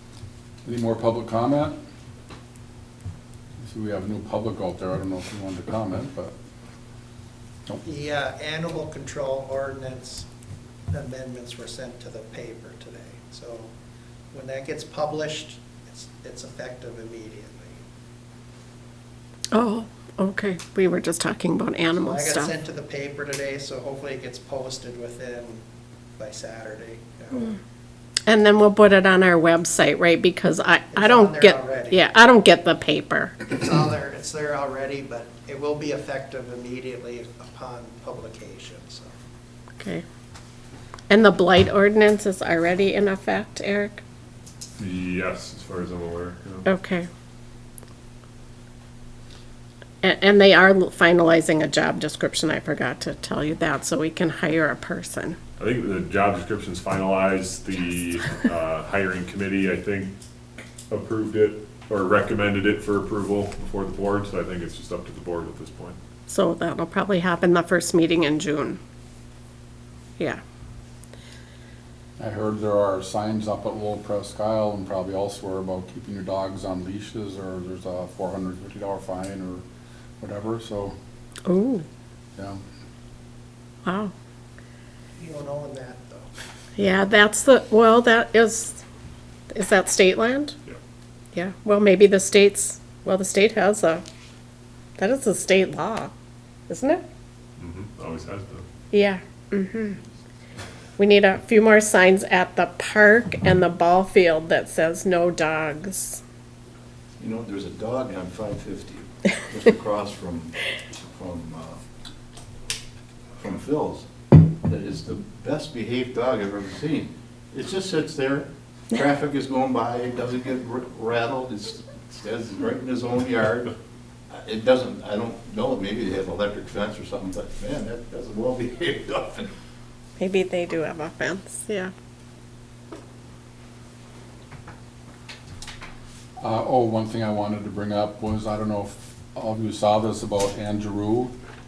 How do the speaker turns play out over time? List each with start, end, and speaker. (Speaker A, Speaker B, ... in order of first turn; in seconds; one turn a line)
Speaker A: 0.6-1.8
Speaker A: 3.6-6.3
Speaker B: 7.8-10.3
Speaker B: 10.9-13.7
Speaker B: 14.3-17.8
Speaker C: 19.5-22.5
Speaker B: 21.9-25.6
Speaker B: 26.2-27.6
Speaker C: 28.3-33.4
Speaker B: 30.9-32.0
Speaker B: 33.5-39.1
Speaker C: 41.1-44.0
Speaker D: 44.8-46.6
Speaker C: 46.6-47.1
Speaker C: 50.0-55.4
Speaker D: 55.6-60.1
Speaker D: 60.9-66.0
Speaker C: 66.3-68.8
Speaker A: 72.2-79.6
Speaker A: 80.2-80.9
Speaker C: 81.5-81.8
Speaker C: 83.8-84.1
Speaker B: 85.2-86.3
Speaker C: 86.8-88.8
Speaker C: 89.5-90.5
Speaker C: 91.3-94.0
Speaker C: 95.0-96.1
Speaker C: 96.7-97.0
Speaker D: 97.6-98.6
Speaker C: 98.9-100.0
Speaker C: 101.0-106.2
Speaker E: 107.2-111.8
Speaker E: 113.4-114.1
Speaker E: 114.6-123.7
Speaker E: 124.3-129.5
Speaker C: 130.2-131.9
Speaker A: 136.4-141.3